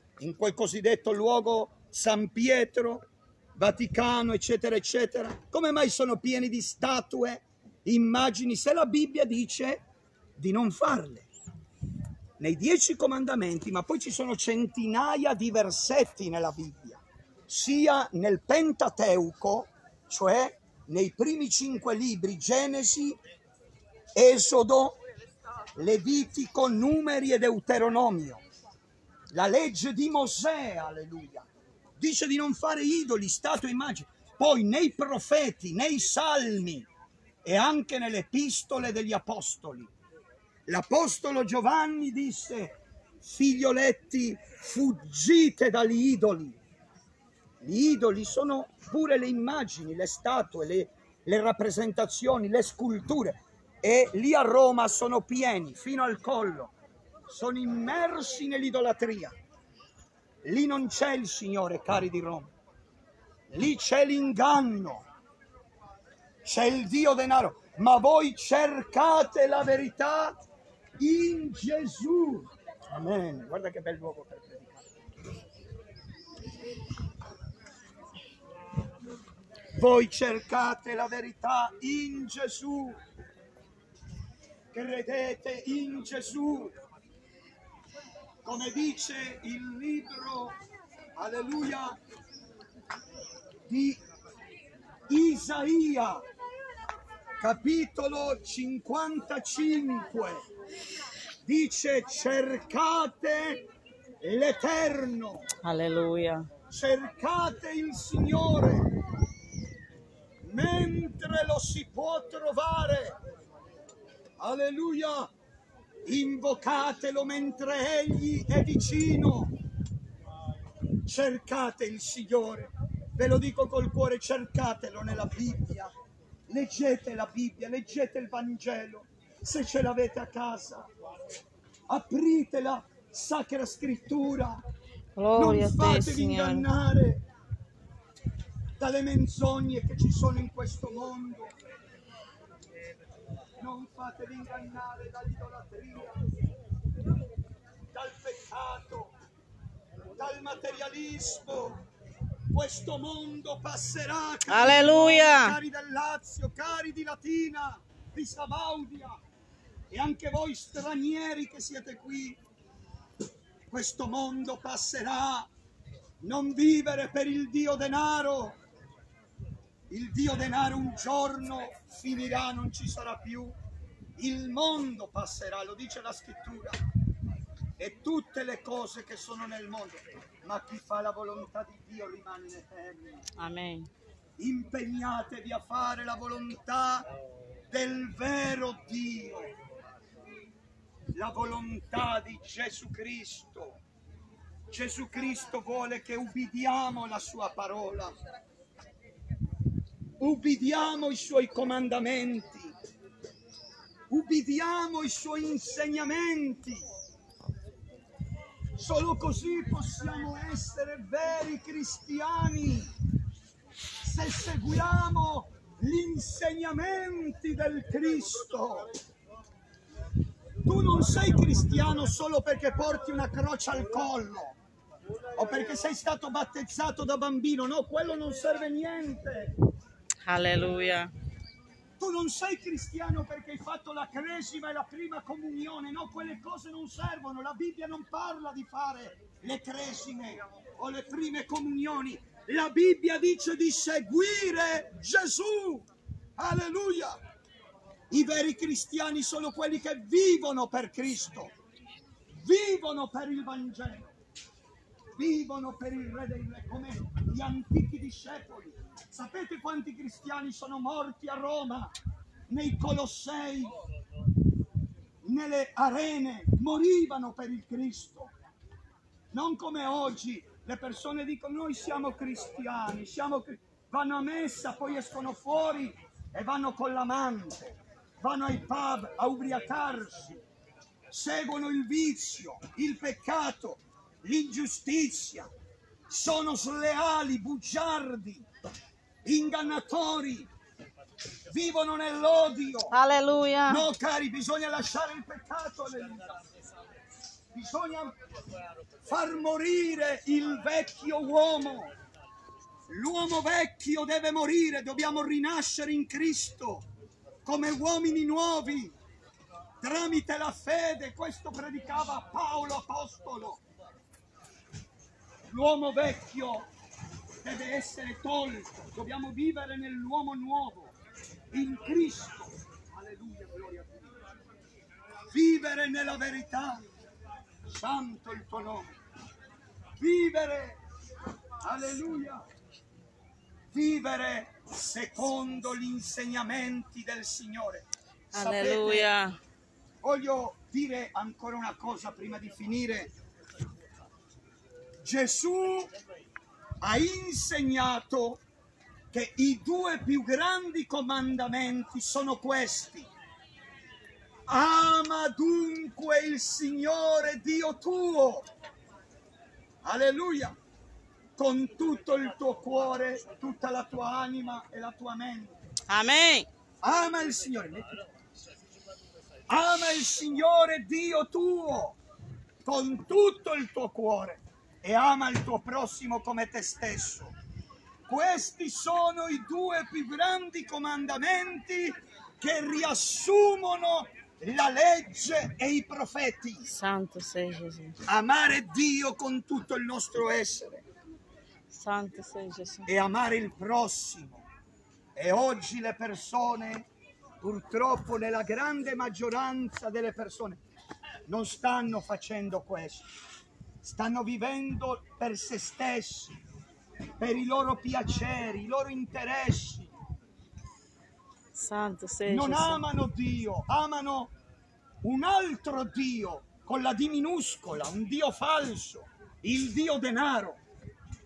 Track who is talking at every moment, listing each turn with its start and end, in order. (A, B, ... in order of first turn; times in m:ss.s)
0:00.2-0:09.8 A
0:10.4-0:11.3 A
0:12.4-0:23.2 A
0:24.1-0:25.0 A
0:25.8-0:28.4 A
0:29.3-0:31.5 A
0:32.0-0:36.9 A
0:37.4-0:39.9 A
0:40.7-0:46.6 A
0:47.6-0:56.7 A
0:57.3-0:59.3 A
1:00.4-1:02.5 A
1:03.5-1:05.0 A
1:06.4-1:10.4 A
1:11.0-1:14.8 A
1:19.7-1:23.0 A
1:24.7-1:26.7 A
1:28.4-1:30.6 A
1:31.2-1:32.0 A
1:33.7-1:34.0 A
1:35.1-1:36.2 A
1:37.4-1:40.4 A
1:41.4-1:43.6 A
1:44.2-1:45.5 A
1:45.6-1:46.5 B
1:46.7-1:48.9 A
1:50.4-1:53.2 A
1:54.4-1:55.3 A
1:56.0-1:59.5 A
2:01.0-2:05.9 A
2:06.5-2:10.9 A
2:11.9-2:14.6 A
2:15.2-2:16.7 B
2:15.3-2:17.2 A
2:18.8-2:21.5 A
2:23.6-2:26.3 A
2:27.9-2:29.1 A
2:30.2-2:31.8 A
2:32.5-2:39.2 A
2:34.5-2:35.6 B
2:39.9-2:42.4 A
2:43.7-2:45.5 A
2:46.2-2:48.6 A
2:49.9-2:53.5 A
2:54.2-2:56.8 A
2:57.8-3:03.2 A
3:03.4-3:03.9 B
3:04.4-3:07.1 A
3:07.7-3:09.5 A
3:11.1-3:13.8 A
3:14.7-3:18.1 A
3:20.2-3:22.7 A
3:24.1-3:26.8 A
3:28.8-3:32.9 A
3:34.0-3:38.9 A
3:40.6-3:44.5 A
3:45.3-3:49.6 A
3:50.2-3:51.1 B
3:52.0-4:07.2 A
4:08.1-4:11.5 A
4:12.3-4:14.1 A
4:15.2-4:21.9 A
4:22.5-4:23.7 A
4:25.2-4:28.3 A
4:29.3-4:40.4 A
4:41.1-4:45.5 A
4:46.1-4:48.5 A
4:49.2-4:50.5 A
4:51.5-4:52.9 A
4:52.9-4:53.8 B
4:53.7-4:56.4 A
4:57.5-4:58.2 A
4:59.0-5:01.9 A
5:02.9-5:06.8 A
5:07.4-5:09.0 A
5:09.8-5:13.6 A
5:15.5-5:16.7 A
5:17.4-5:20.9 A
5:21.5-5:24.1 A
5:25.3-5:26.9 A
5:27.6-5:28.9 A
5:30.0-5:30.8 A
5:31.6-5:32.4 A
5:33.7-5:39.1 A
5:38.3-5:39.4 B
5:40.0-5:43.1 A
5:45.0-5:45.9 A
5:46.8-5:48.4 A
5:49.1-5:53.1 A
5:54.5-5:58.5 A
5:59.8-6:00.6 A
6:01.4-6:05.6 A
6:05.9-6:06.5 B
6:06.8-6:08.0 A
6:09.5-6:12.0 A
6:12.6-6:17.3 A
6:18.1-6:26.7 A
6:26.6-6:28.0 B
6:28.0-6:30.8 A
6:31.7-6:32.9 B
6:32.9-6:34.4 A
6:35.2-6:36.9 A
6:37.4-6:40.6 A
6:41.3-6:43.1 A
6:43.8-6:46.4 A
6:47.2-6:49.9 A
6:51.5-6:52.8 B
6:52.2-6:54.3 A
6:55.0-7:00.6 A